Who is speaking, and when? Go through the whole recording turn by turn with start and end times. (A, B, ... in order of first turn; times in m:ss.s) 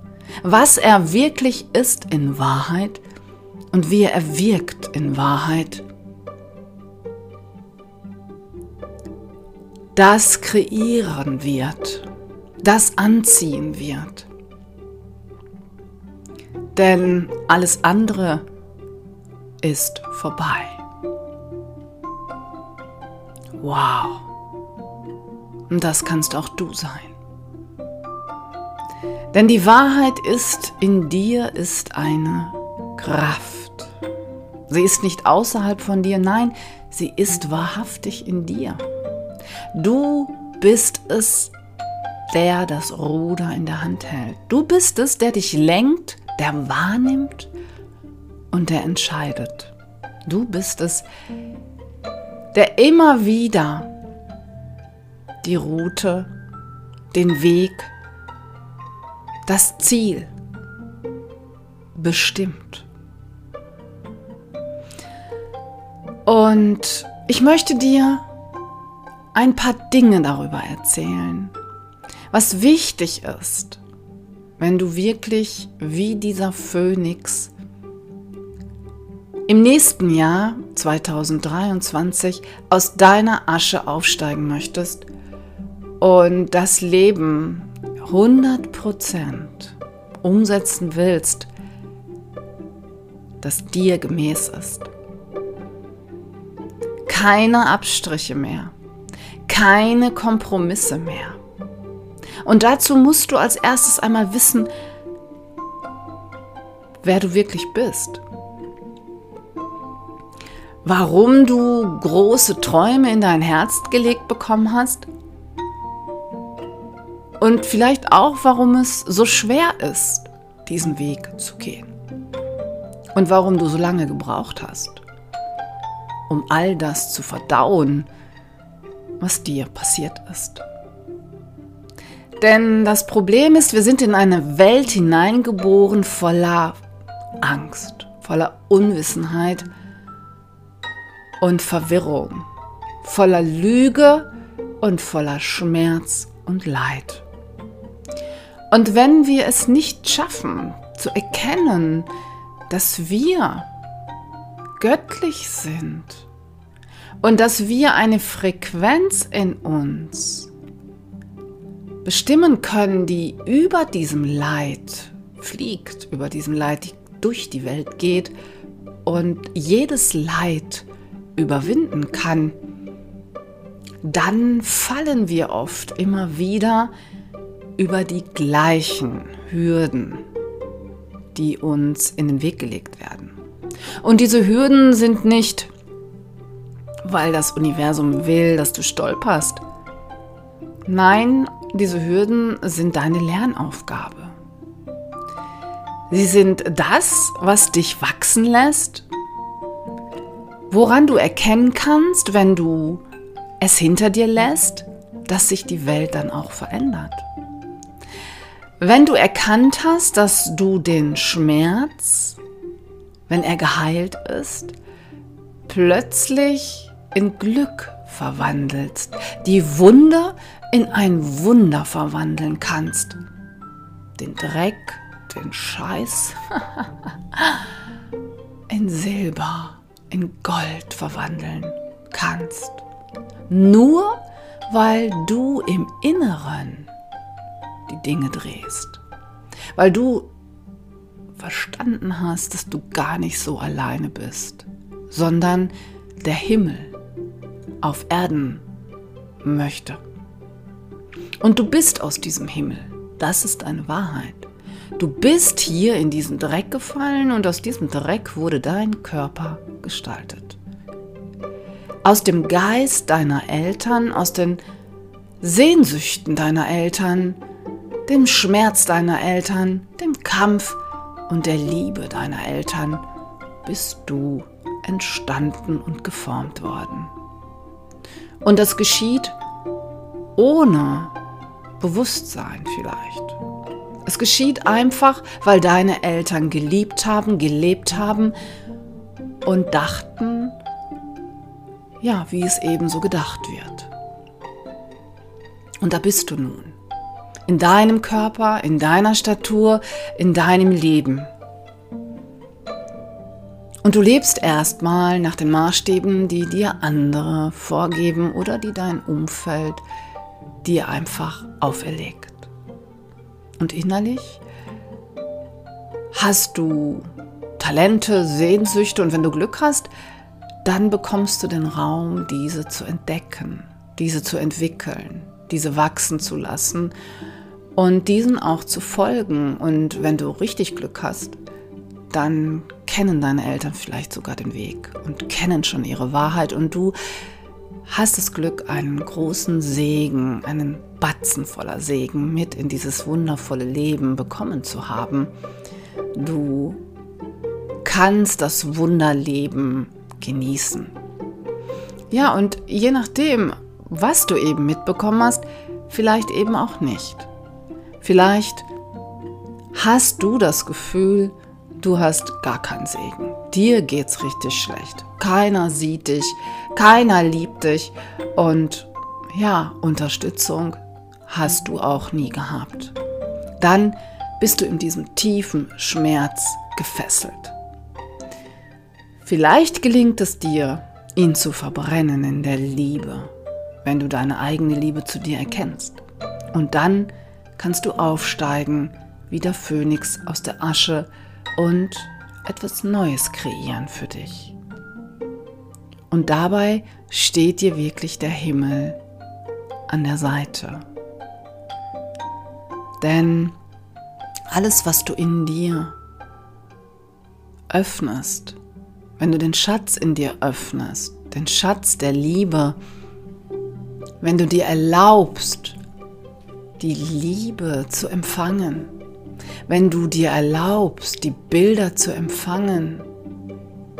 0:00.4-0:03.0 A
0:03.7-0:05.8 A
0:10.0-0:12.1 A
0:12.6-0:14.3 A
0:16.7-0:18.4 A
0:19.6-0:20.8 A
0:23.6-0:24.3 A
0:25.7-0:27.1 A
0:29.3-0:33.9 A
0:34.7-0:38.8 A
0:39.7-0:41.5 A
0:42.3-0:47.5 A
0:48.5-0:49.7 A
0:50.2-0:51.1 A
0:52.5-0:53.9 A
0:55.4-0:56.3 A
0:57.1-0:57.9 A
0:59.4-1:00.3 A
1:01.9-1:02.9 A
1:06.2-1:08.2 A
1:09.3-1:11.5 A
1:12.3-1:13.8 A
1:14.6-1:17.5 A
1:19.5-1:25.1 A
1:26.0-1:31.5 A
1:33.4-1:34.9 A
1:37.1-1:38.7 A
1:39.5-1:41.4 A
1:42.4-1:44.7 A
1:47.0-1:48.2 A
1:50.8-1:55.1 A
1:57.4-2:01.9 A
2:03.1-2:05.0 A
2:06.3-2:08.1 A
2:09.2-2:10.6 A
2:12.4-2:16.8 A
2:17.4-2:19.7 A
2:21.4-2:22.4 A
2:23.0-2:24.3 A
2:24.8-2:27.2 A
2:28.7-2:32.1 A
2:32.7-2:33.7 A
2:34.8-2:36.3 A
2:37.2-2:40.5 A
2:42.0-2:48.3 A
2:49.0-2:52.6 A
2:54.0-2:56.9 A
2:57.8-3:00.2 A
3:01.3-3:03.4 A
3:04.0-3:05.7 A
3:07.0-3:09.6 A
3:10.9-3:14.4 A
3:16.1-3:19.1 A
3:20.7-3:23.0 A
3:23.6-3:27.2 A
3:28.8-3:32.4 A
3:33.3-3:34.8 A
3:35.7-3:43.2 A
3:44.2-3:47.6 A
3:48.7-3:52.8 A
3:53.5-3:56.9 A
3:57.9-3:59.0 A
3:59.8-4:00.3 A
4:01.4-4:06.9 A
4:07.8-4:08.6 A
4:09.4-4:10.0 A
4:11.4-4:20.6 A
4:22.0-4:24.6 A
4:25.4-4:27.4 A
4:28.1-4:33.0 A
4:33.6-4:37.1 A
4:38.4-4:39.4 A
4:40.4-4:41.1 A
4:41.8-4:43.4 A
4:44.1-4:48.3 A
4:49.4-4:50.6 A
4:52.0-4:53.9 A
4:55.8-4:56.8 A
4:57.5-5:01.3 A
5:03.8-5:09.8 A
5:10.6-5:12.5 A
5:13.6-5:14.4 A
5:16.1-5:19.9 A
5:20.6-5:26.9 A
5:27.8-5:31.4 A
5:32.1-5:37.0 A
5:37.9-5:45.3 A
5:46.1-5:46.8 A
5:47.8-5:51.0 A
5:52.1-5:57.3 A
5:58.0-5:58.7 A
5:59.7-6:13.0 A
6:13.6-6:17.5 A
6:19.2-6:23.3 A
6:23.8-6:26.0 A
6:26.5-6:34.5 A
6:36.1-6:39.0 A
6:39.9-6:40.8 A
6:43.0-6:43.6 A
6:44.5-6:46.0 A
6:47.7-6:48.6 A
6:49.2-6:52.8 A
6:54.2-6:55.8 A
6:56.8-6:58.9 A
6:59.7-7:03.1 A